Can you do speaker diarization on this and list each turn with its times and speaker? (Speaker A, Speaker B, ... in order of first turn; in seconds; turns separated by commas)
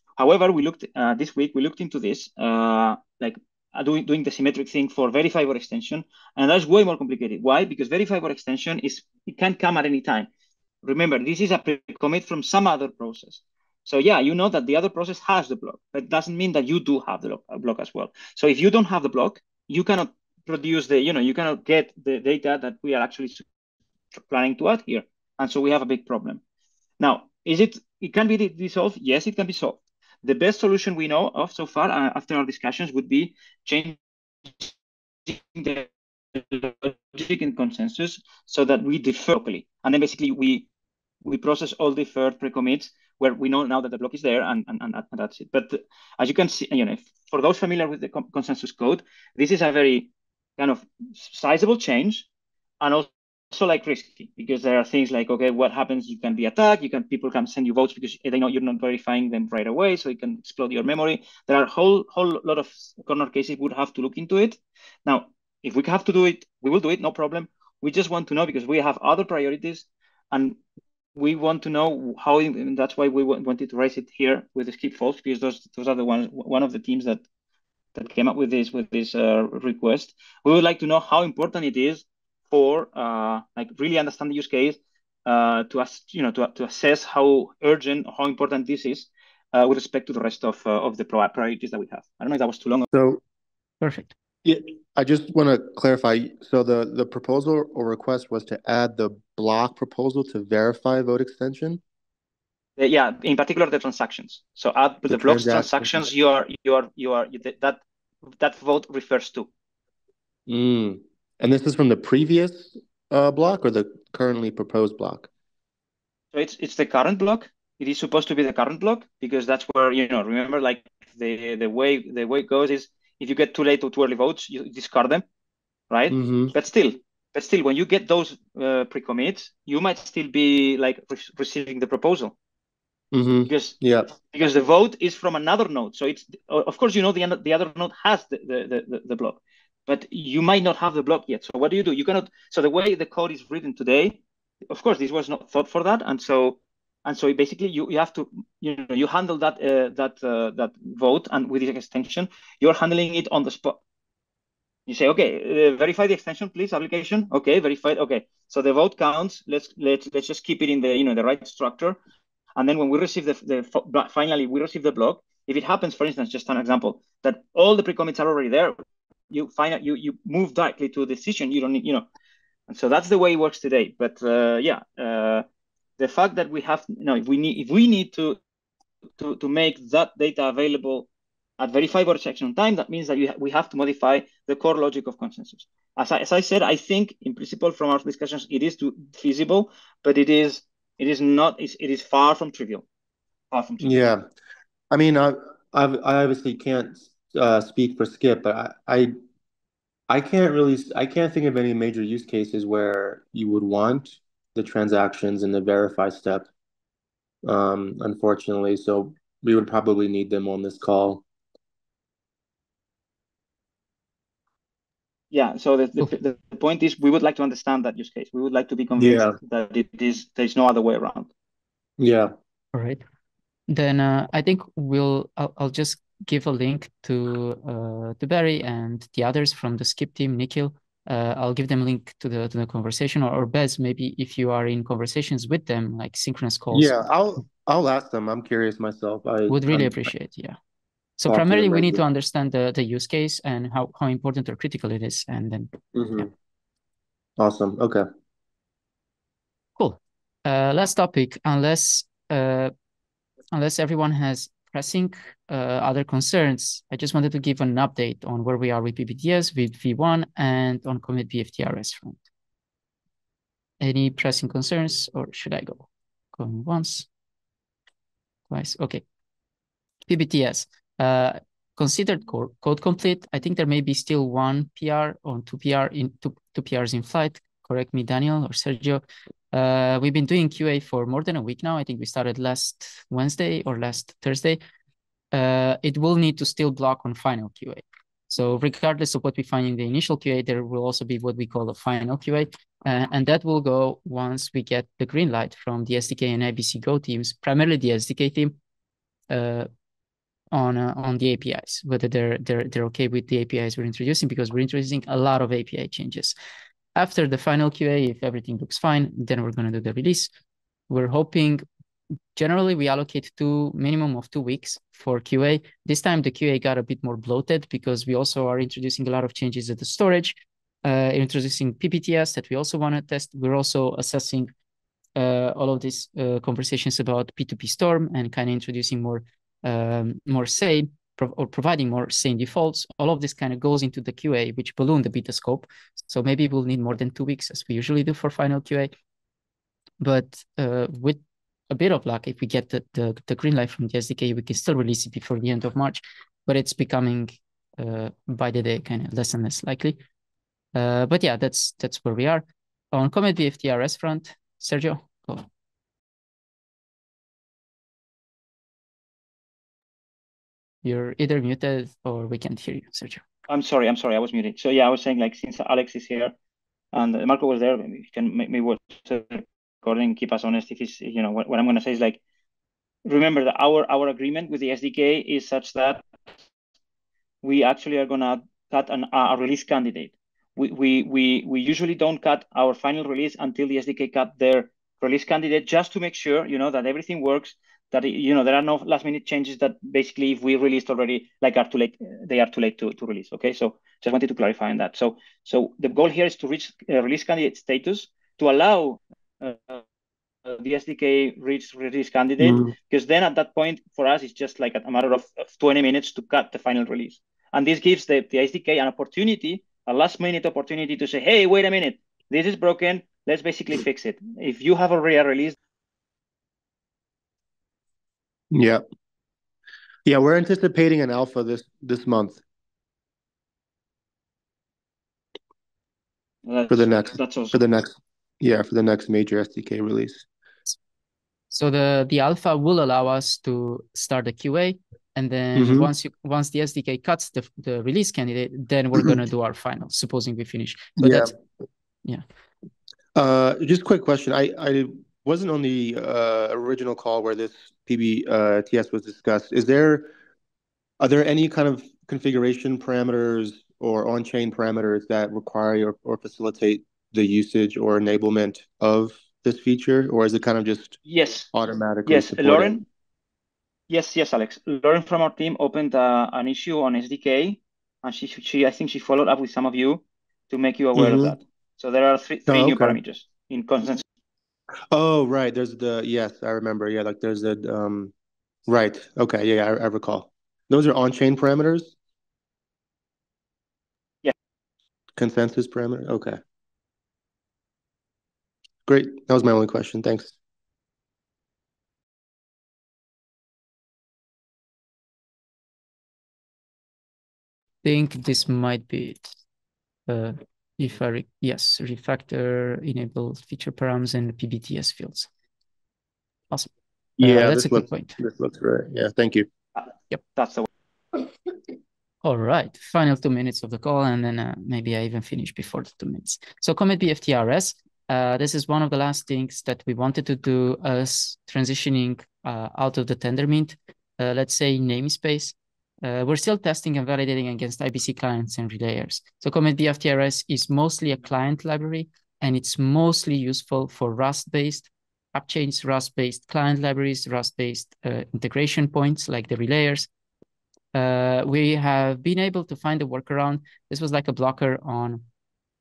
Speaker A: 0.2-10.3, Speaker A: 10.8-23.4, Speaker A: 24.2-26.4, Speaker A: 27.0-34.0, Speaker A: 35.3-40.7, Speaker A: 41.2-52.3, Speaker A: 52.8-70.6, Speaker A: 71.2-77.2, Speaker A: 77.9-92.9, Speaker B: 92.9-93.2, Speaker C: 93.8-94.1, Speaker B: 94.4-101.8, Speaker A: 102.8-109.5, Speaker B: 105.1-106.0, Speaker B: 110.5-115.3, Speaker A: 116.3-125.2, Speaker A: 125.9-132.3, Speaker B: 126.1-126.5, Speaker B: 133.1-134.1, Speaker A: 133.5-153.8, Speaker A: 154.9-162.0, Speaker A: 162.6-168.8, Speaker A: 169.3-172.1, Speaker A: 172.7-175.4, Speaker A: 176.0-178.4, Speaker A: 179.2-181.1, Speaker A: 181.6-192.8, Speaker A: 193.5-193.9, Speaker B: 193.8-194.3, Speaker B: 194.9-199.2, Speaker B: 200.1-206.5, Speaker B: 207.4-211.2, Speaker A: 215.3-221.3, Speaker B: 219.0-219.4, Speaker B: 222.0-222.3, Speaker C: 222.7-223.0, Speaker C: 223.7-237.0, Speaker B: 236.7-240.1, Speaker C: 239.5-240.6, Speaker C: 241.2-245.7, Speaker B: 241.3-242.0, Speaker B: 245.9-246.3, Speaker B: 247.4-248.0, Speaker C: 249.8-252.7, Speaker C: 253.5-262.2, Speaker C: 263.8-267.1, Speaker C: 268.5-269.0, Speaker C: 270.1-284.6, Speaker C: 285.3-298.6, Speaker C: 299.3-299.7, Speaker C: 300.5-306.4, Speaker C: 306.9-310.3, Speaker C: 310.9-311.6, Speaker C: 312.3-324.5, Speaker C: 325.1-338.9, Speaker C: 340.0-350.0, Speaker C: 350.7-355.5, Speaker C: 360.8-363.2, Speaker A: 363.5-366.3, Speaker A: 366.9-372.2, Speaker A: 373.0-376.1, Speaker A: 377.4-399.8, Speaker A: 400.4-415.5, Speaker B: 402.4-402.7, Speaker B: 418.5-418.8, Speaker B: 420.0-422.4, Speaker A: 426.4-427.6, Speaker B: 426.7-430.2, Speaker C: 431.5-441.3, Speaker B: 435.5-435.9, Speaker B: 441.0-441.3, Speaker B: 443.1-450.1, Speaker B: 451.0-461.0, Speaker A: 461.0-461.5, Speaker B: 461.5-462.8, Speaker A: 462.1-462.8, Speaker A: 463.9-474.0, Speaker B: 470.9-471.4, Speaker B: 472.5-473.0, Speaker B: 474.9-478.1, Speaker B: 478.7-481.9, Speaker B: 485.2-486.4, Speaker B: 488.9-490.3, Speaker C: 497.8-499.3, Speaker C: 500.1-505.3, Speaker C: 506.5-508.1, Speaker B: 507.2-509.5, Speaker A: 509.8-510.7, Speaker C: 512.2-540.1, Speaker C: 540.9-545.2